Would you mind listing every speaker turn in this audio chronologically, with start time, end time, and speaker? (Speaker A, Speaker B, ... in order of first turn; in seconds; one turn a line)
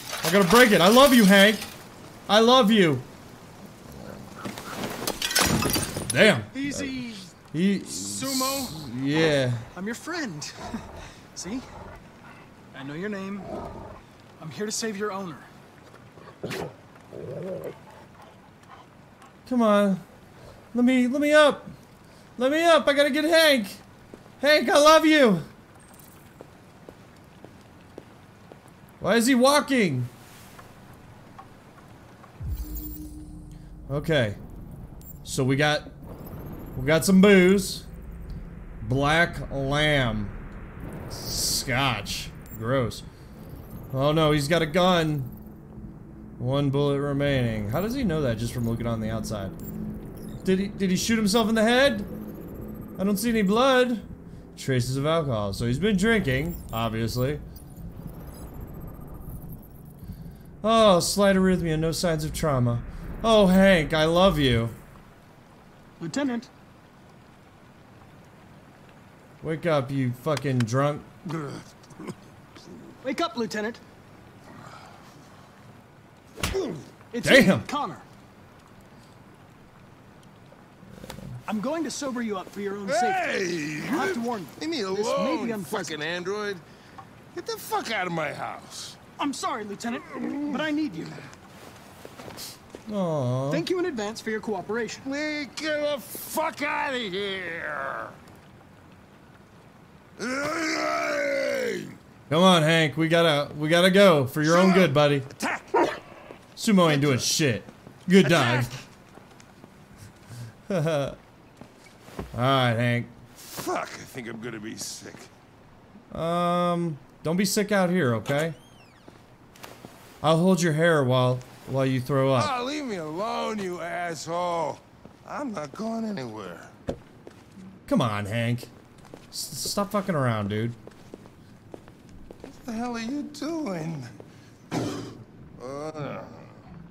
Speaker A: 0.2-1.7
Speaker A: 2.3-3.0
Speaker A: 6.0-6.9
Speaker B: 6.2-7.3
Speaker A: 7.5-9.7
Speaker B: 7.9-8.8
Speaker B: 9.7-11.6
Speaker B: 12.7-13.5
Speaker B: 14.4-15.5
Speaker A: 19.4-20.0
Speaker A: 20.7-21.7
Speaker A: 22.4-23.8
Speaker A: 24.4-25.4
Speaker A: 29.0-30.1
Speaker A: 33.9-34.4
Speaker A: 35.2-35.9
Speaker A: 36.7-37.9
Speaker A: 38.8-40.4
Speaker A: 41.1-43.0
Speaker A: 43.9-45.3
Speaker A: 46.4-49.5
Speaker A: 50.4-52.1
Speaker A: 53.0-57.4
Speaker A: 60.6-64.8
Speaker B: 66.0-66.5
Speaker A: 69.4-71.1
Speaker B: 73.0-73.8
Speaker B: 77.1-78.0
Speaker A: 77.2-77.7
Speaker B: 81.5-86.0
Speaker C: 82.8-86.6
Speaker C: 87.3-89.0
Speaker B: 89.2-91.2
Speaker A: 92.9-93.6
Speaker B: 93.5-95.1
Speaker C: 95.0-98.1
Speaker C: 100.2-101.9
Speaker A: 102.3-105.3
Speaker C: 105.3-105.9
Speaker A: 106.6-108.7
Speaker A: 110.7-111.2
Speaker A: 112.3-113.1
Speaker C: 113.4-115.3
Speaker A: 116.1-118.6
Speaker A: 120.2-122.5
Speaker C: 122.4-126.7
Speaker A: 127.9-128.7
Speaker A: 129.3-130.8
Speaker C: 132.4-134.1
Speaker C: 135.6-136.5